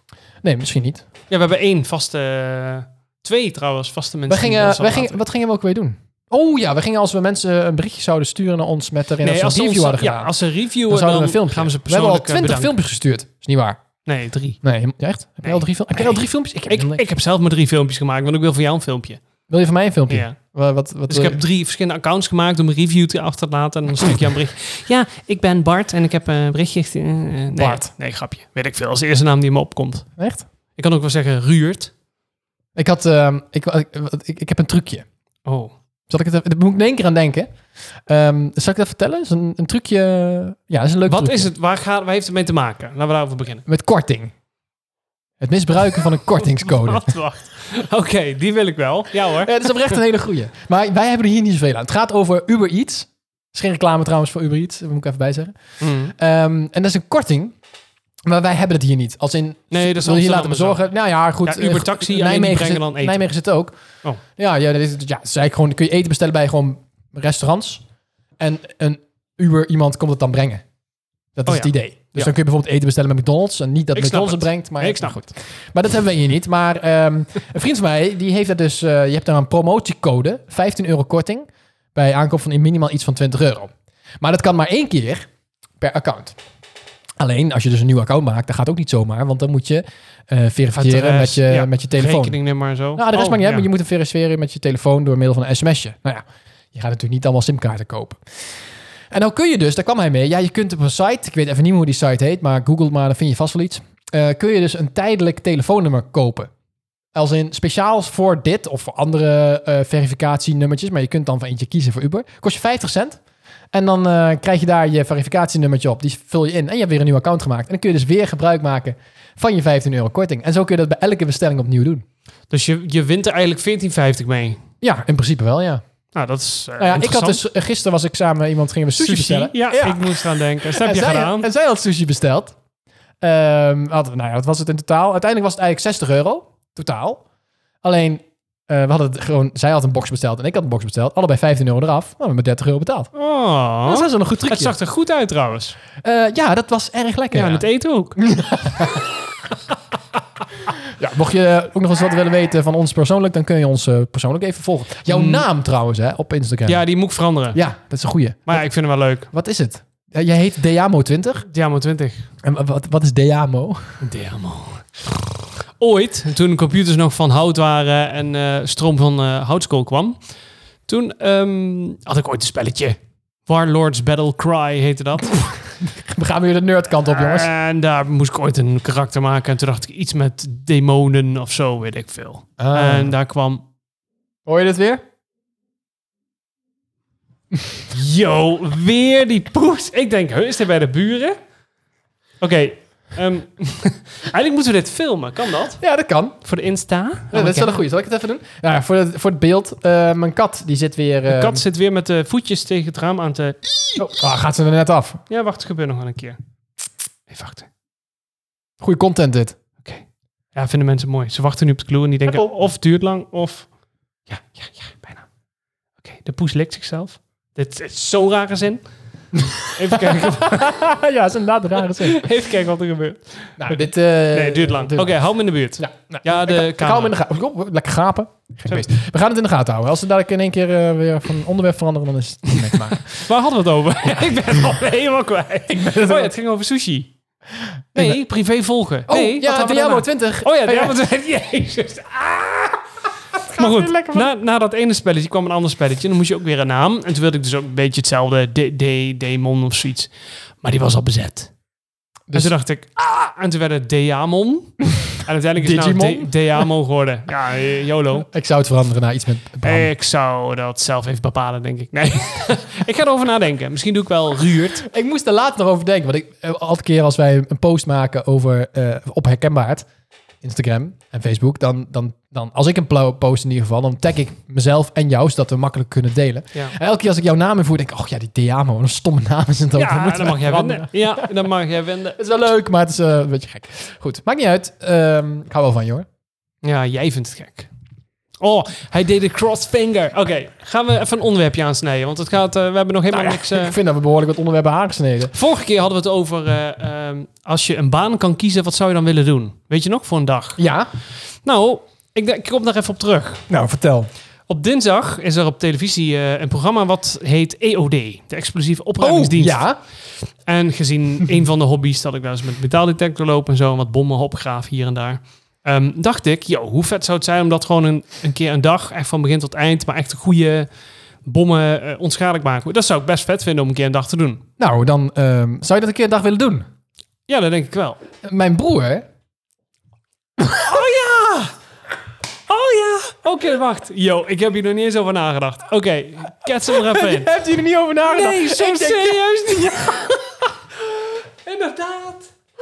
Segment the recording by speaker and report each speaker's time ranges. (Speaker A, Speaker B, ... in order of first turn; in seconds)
Speaker A: 0.4-1.1, 4.3-10.3, 10.9-13.8, 14.6-17.0, 19.5-21.4, 27.6-27.9, 30.2-30.5, 32.8-35.1, 36.1-37.5, 38.1-41.5, 43.7-44.3, 45.4-47.2, 49.4-55.5, 56.1-57.5, 58.2-67.8, 68.4-70.6, 71.4-85.3, 85.8-86.4, 87.2-92.4, 93.0-98.2, 99.1-106.5, 107.1-113.2, 113.7-122.0, 124.8-125.8, 126.8-132.6, 133.2-137.2, 137.8-143.1, 143.9-144.8, 146.0-149.1, 150.8-156.8, 157.5-158.7, 159.3-161.5, 162.4-164.0, 175.8-177.5, 182.6-183.1, 184.5-185.0, 195.8-196.4, 197.3-201.6, 204.0-205.2, 208.8-209.6, 219.4-222.3, 223.6-225.2, 225.8-233.1, 235.7-236.3, 237.9-238.2, 239.1-241.0, 243.5-244.3, 255.6-256.6, 258.2-259.9, 264.8-269.9, 270.4-281.3, 282.2-286.1, 293.1-295.3, 300.6-300.9, 303.5-304.1, 309.0-309.8, 324.6-326.7, 328.2-329.1, 336.7-340.0
Speaker B: 1.3-5.2, 9.2-12.7, 14.1-14.6, 15.4-19.2, 20.1-20.4, 21.1-30.1, 30.8-31.9, 35.5-35.7, 41.1-43.6, 46.6-49.7, 55.8-56.1, 59.7-60.9, 61.4-63.2, 71.5-72.3, 74.0-75.2, 90.8-93.7, 122.5-124.6, 126.1-127.4, 128.9-131.5, 143.2-145.8, 147.3-148.2, 155.1-155.4, 156.7-157.6, 158.5-159.3, 161.5-162.3, 164.0-170.2, 170.9-175.5, 177.1-183.6, 187.9-191.4, 192.4-195.8, 196.4-197.8, 201.3-203.6, 205.3-206.4, 207.3-207.7, 209.8-213.7, 214.3-215.3, 216.0-218.8, 219.7-220.7, 222.0-223.8, 224.3-227.2, 232.9-237.1, 237.9-242.8, 243.6-250.1, 250.6-251.5, 252.3-258.3, 259.6-264.9, 279.8-282.2, 286.6-287.7, 288.4-293.8, 295.3-300.6, 301.4-303.4, 304.5-309.6, 310.5-320.7, 321.3-324.4, 327.3-328.0, 330.5-331.5, 332.5-337.3, 338.1-340.2, 341.4-342.3